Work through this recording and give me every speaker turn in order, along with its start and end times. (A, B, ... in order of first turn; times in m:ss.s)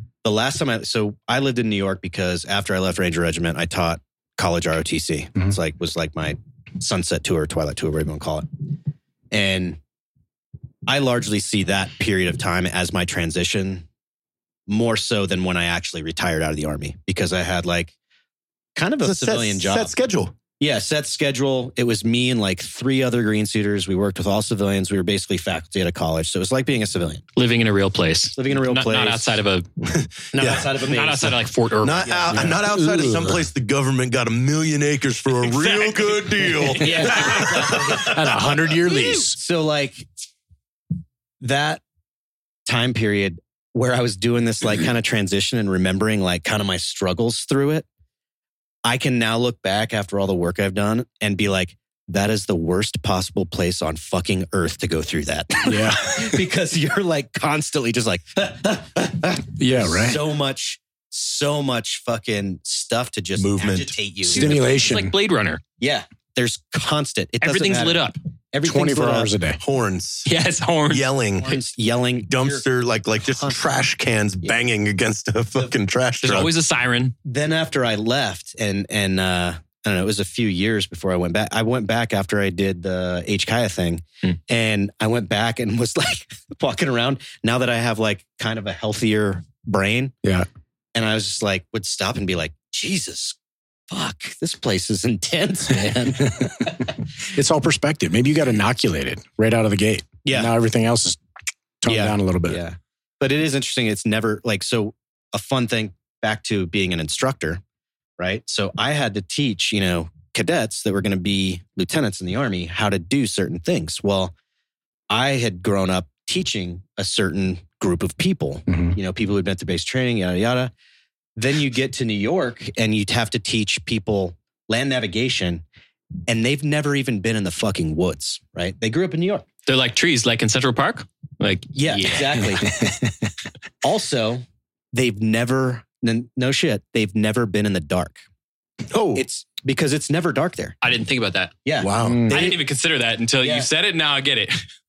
0:00.2-0:08.5 A
0:09.3-0:09.8 A
0:10.9-0:13.8 A
0:14.7-0:17.9 A
0:18.8-0:19.9 A
0:19.0-0:20.3 B
0:20.6-0:27.2 A
0:27.4-0:29.6 C
0:28.4-0:29.3 A
0:29.8-0:30.7 B
0:30.3-0:31.4 A
0:30.4-0:32.4 C
0:31.8-0:38.1 B
0:32.0-0:32.6 A
0:32.4-0:33.5 D
0:35.4-0:36.4 C
0:36.6-0:38.2 A
0:37.1-0:37.5 C
0:37.2-0:39.4 D
0:38.8-0:40.1 A
0:41.4-0:41.8 A
0:42.7-0:47.8 A
0:48.8-1:04.7 A
0:55.7-0:56.4 D
0:59.6-1:00.2 D
1:03.4-1:04.0 B
1:04.3-1:05.1 D
1:04.3-1:05.6 C
1:05.8-1:09.3 A
1:07.4-1:08.2 C
1:08.6-1:09.6 D
1:09.6-1:10.3 B
1:10.2-1:11.5 C
1:10.9-1:11.5 B
1:11.4-1:12.6 A
1:12.2-1:16.5 B
1:13.2-1:13.6 A
1:16.2-1:17.1 C
1:17.2-1:30.1 A
1:30.9-1:33.4 A
1:33.9-1:36.8 A
1:36.2-1:41.2 D
1:40.2-1:40.5 A
1:41.8-1:42.6 D
1:41.9-1:47.6 A
1:48.2-1:54.3 A
1:55.1-2:00.7 A
1:58.7-1:59.0 D
2:01.4-2:05.6 A
2:06.3-2:09.4 A
2:09.7-2:12.7 C
2:11.8-2:12.8 A
2:12.6-2:13.3 D
2:13.8-2:18.2 A
2:18.9-2:19.2 B
2:19.1-2:20.8 A
2:20.8-2:21.6 C
2:21.6-2:22.6 A
2:21.8-2:22.4 B
2:22.0-2:22.4 D
2:22.3-2:24.6 C
2:23.4-2:23.7 A